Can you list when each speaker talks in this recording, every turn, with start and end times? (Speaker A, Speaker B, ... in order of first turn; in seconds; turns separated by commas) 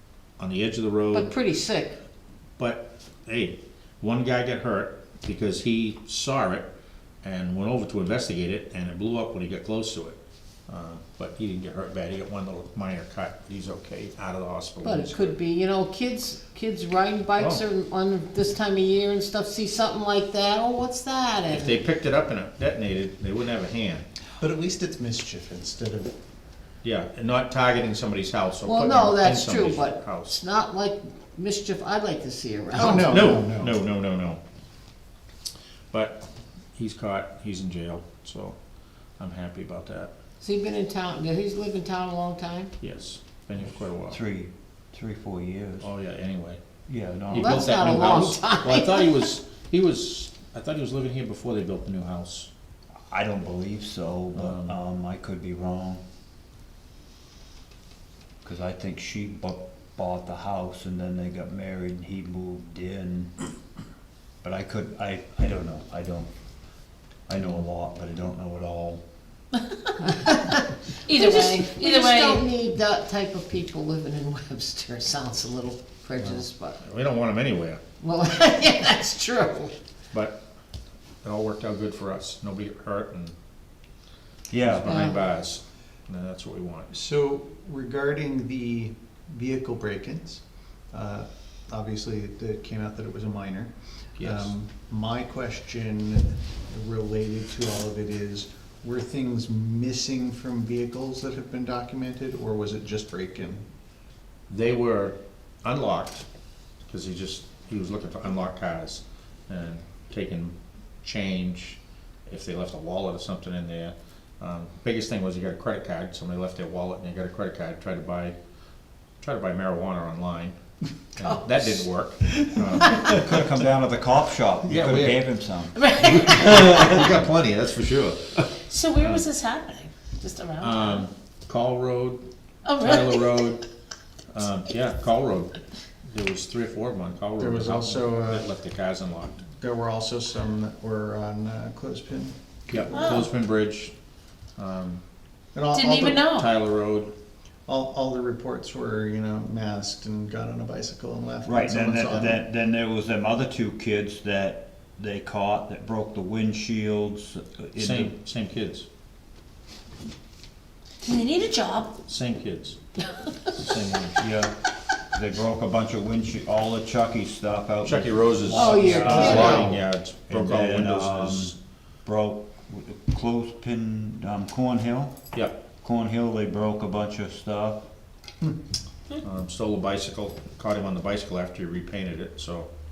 Speaker A: 0.4-1.4, Speaker B: 1.1-2.0, Speaker A: 2.6-6.7, Speaker A: 7.2-15.3, Speaker B: 14.8-21.8, Speaker A: 17.4-17.6, Speaker A: 21.5-24.1, Speaker C: 24.4-26.1, Speaker A: 26.8-30.4, Speaker B: 28.6-33.3, Speaker C: 32.8-33.8, Speaker A: 32.8-34.4, Speaker A: 35.9-36.2, Speaker A: 36.8-38.6, Speaker A: 39.2-40.1, Speaker B: 40.4-42.7, Speaker A: 42.8-44.2, Speaker D: 44.1-45.9, Speaker A: 45.8-46.6, Speaker D: 46.9-47.8, Speaker A: 47.3-52.5, Speaker B: 47.3-49.3, Speaker D: 53.1-56.0, Speaker A: 54.4-54.8, Speaker D: 58.4-63.3, Speaker D: 64.4-66.3, Speaker D: 67.3-69.0, Speaker B: 70.1-76.8, Speaker E: 71.0-72.4, Speaker A: 76.2-77.8, Speaker B: 78.0-79.7, Speaker A: 80.1-80.4, Speaker A: 81.2-83.3, Speaker D: 84.5-84.9, Speaker A: 84.6-86.9, Speaker B: 84.9-85.1, Speaker C: 86.9-103.6, Speaker A: 94.2-94.5, Speaker A: 104.5-106.3, Speaker A: 106.8-118.3, Speaker A: 119.2-120.5, Speaker A: 121.1-123.0, Speaker D: 122.9-126.2, Speaker A: 124.7-125.3, Speaker E: 125.8-126.5, Speaker A: 125.9-129.2, Speaker E: 128.7-131.0, Speaker A: 130.6-132.2, Speaker E: 132.7-133.5, Speaker A: 132.8-133.6, Speaker A: 134.3-139.4, Speaker C: 137.4-138.5, Speaker C: 139.6-143.2, Speaker A: 142.7-143.9, Speaker E: 142.9-143.3, Speaker A: 144.6-145.0, Speaker C: 145.5-146.3, Speaker E: 145.7-146.5, Speaker A: 146.3-147.1, Speaker C: 147.7-152.4, Speaker D: 151.4-158.1, Speaker A: 157.8-158.9, Speaker E: 161.0-161.9, Speaker A: 162.1-162.8, Speaker A: 163.5-164.2, Speaker D: 164.2-164.5, Speaker D: 165.1-175.2, Speaker A: 167.8-171.5, Speaker B: 168.5-169.8, Speaker E: 168.7-169.3, Speaker D: 175.8-177.8, Speaker A: 179.2-182.7